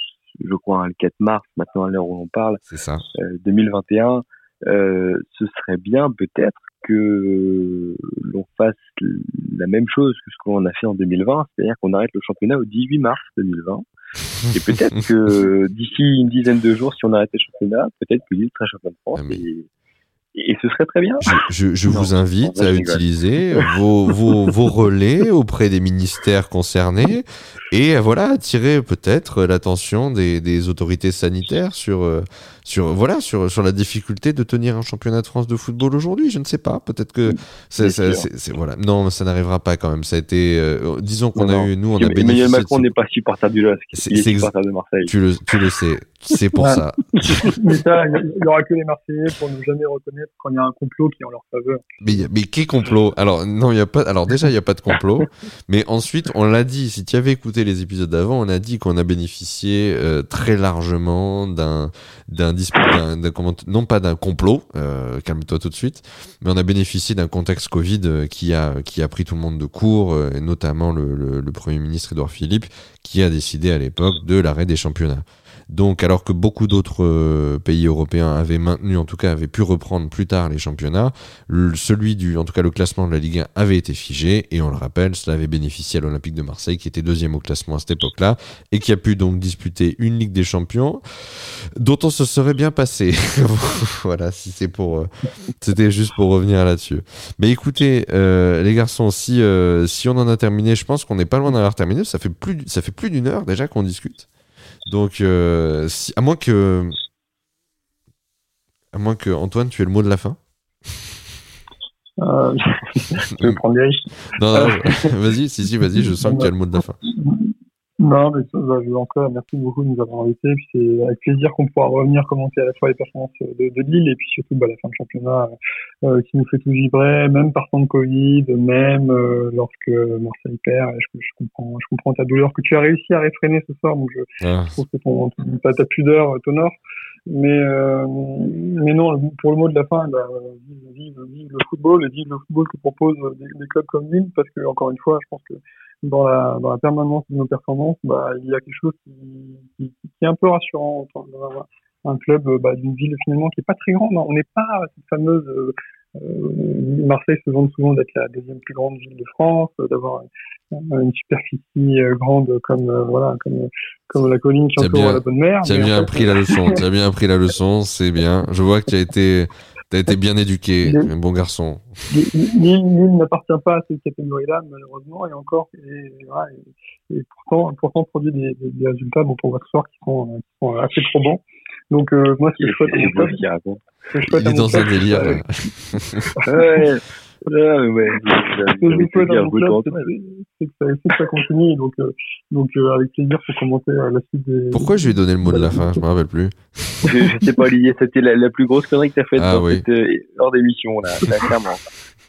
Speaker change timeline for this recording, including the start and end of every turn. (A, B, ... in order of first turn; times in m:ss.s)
0:00.4-0:02.6 A
0:02.7-0:03.0 B
0:03.1-0:13.8 A
0:14.5-0:19.7 A
0:19.1-0:19.4 B
0:20.3-0:21.3 A
0:21.2-0:42.9 B
0:21.9-0:23.0 A
0:37.3-0:38.3 A
0:41.3-0:45.1 A
0:43.9-0:44.5 B
0:45.0-0:47.6 B
0:46.6-0:46.8 C
0:47.2-0:47.6 A
0:47.4-0:52.2 C
0:52.0-1:44.3 B
1:44.9-1:46.9 B
1:48.9-1:50.4 B
1:52.2-1:55.1 C
1:54.3-1:57.0 B
1:56.2-1:56.5 C
1:57.0-2:14.2 C
2:14.4-2:14.8 B
2:14.8-2:16.7 C
2:17.3-2:46.8 C
2:44.8-2:52.0 B
2:50.8-2:51.1 C
2:52.1-3:03.4 C
3:02.6-3:03.8 A
3:04.1-3:05.6 C
3:04.2-3:06.3 B
3:06.2-3:06.8 C
3:06.4-3:10.1 A
3:08.8-3:16.0 C
3:14.7-3:17.1 B
3:17.0-3:21.8 A
3:19.4-3:19.8 B